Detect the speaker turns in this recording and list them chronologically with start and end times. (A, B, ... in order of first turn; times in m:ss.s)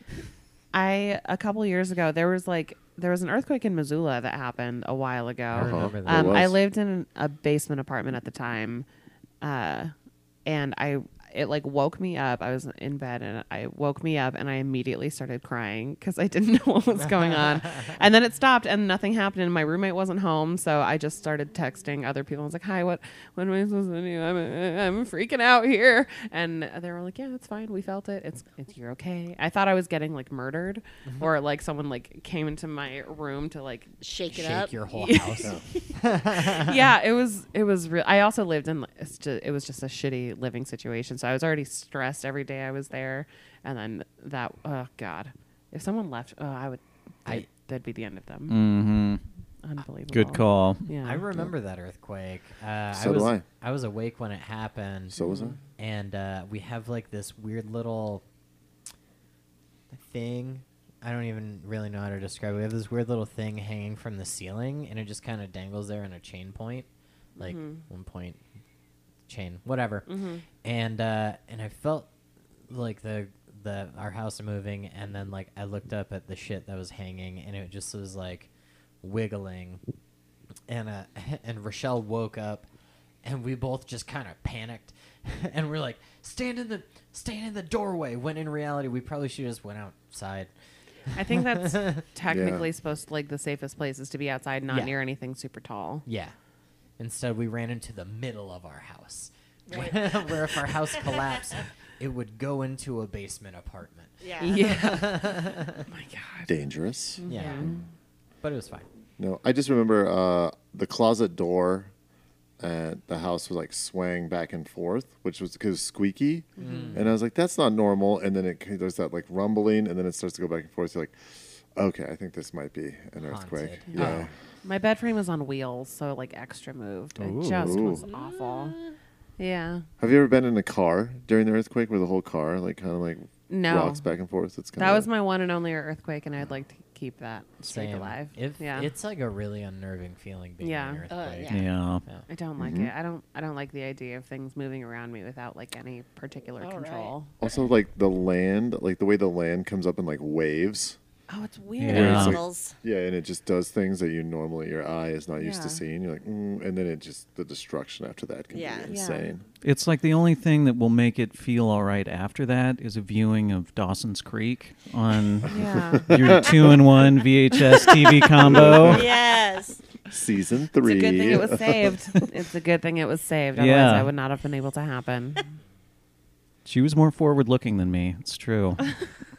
0:00.7-0:08.8 A
0:05.5-0:06.4 B
0:05.5-0:06.6 C
0:09.4-0:09.9 A
0:10.4-0:33.9 A
0:34.0-0:34.8 D
0:34.3-0:36.7 B
0:34.9-0:48.6 A
0:48.5-0:49.2 E
0:49.6-0:51.2 A
0:50.1-0:50.8 E
0:51.0-0:55.2 B
0:52.9-0:53.4 C
0:55.1-0:55.6 C
0:55.2-0:55.6 A
0:55.8-0:58.2 B
0:59.9-1:06.9 B
1:07.4-1:07.8 A
1:07.4-1:08.4 B
1:09.3-1:10.1 B
1:10.1-1:10.4 A
1:10.6-1:12.1 B
1:12.7-1:18.5 B
1:19.0-1:19.8 B
1:20.7-1:22.7 B
1:23.2-1:30.5 B
1:31.1-1:36.0 A
1:31.3-1:32.0 B
1:32.3-1:32.7 C
1:34.7-1:34.9 B
1:36.0-1:36.3 B
1:37.0-1:45.8 B
1:39.7-1:41.4 D
1:44.2-1:44.6 D
1:44.4-1:46.6 A
1:46.5-1:47.7 C
1:47.2-1:47.8 A
1:47.3-1:47.8 B
1:48.4-1:48.8 B
1:49.2-1:51.9 C
1:52.6-2:04.3 C
1:56.6-1:56.9 A
1:56.6-1:57.1 B
2:03.2-2:04.3 B
2:03.9-2:08.8 A
2:07.2-2:07.8 E
2:07.6-2:08.0 C
2:08.1-2:08.9 D
2:09.4-2:09.8 A
2:10.0-2:15.1 C
2:13.5-2:14.0 A
2:14.8-2:18.9 A
2:17.7-2:22.2 B
2:20.6-2:21.0 A
2:21.1-2:21.7 D
2:21.5-2:22.0 E
2:22.3-2:27.3 A
2:22.6-2:22.9 C
2:26.6-2:27.1 D
2:27.4-2:31.0 C
2:31.3-2:32.4 A
2:31.8-2:32.4 E
2:31.9-2:39.4 C
2:32.0-2:32.7 D
2:35.4-2:35.8 A
2:38.5-2:38.9 D
2:38.9-2:39.3 A
2:39.6-2:49.0 E
2:45.5-2:46.4 A
2:45.6-2:46.6 C
2:47.7-2:48.1 A
2:48.4-2:49.2 C
2:48.9-2:49.8 D
2:50.1-2:52.1 C
2:50.8-2:55.6 A
2:53.5-2:54.1 E
2:56.6-2:58.9 E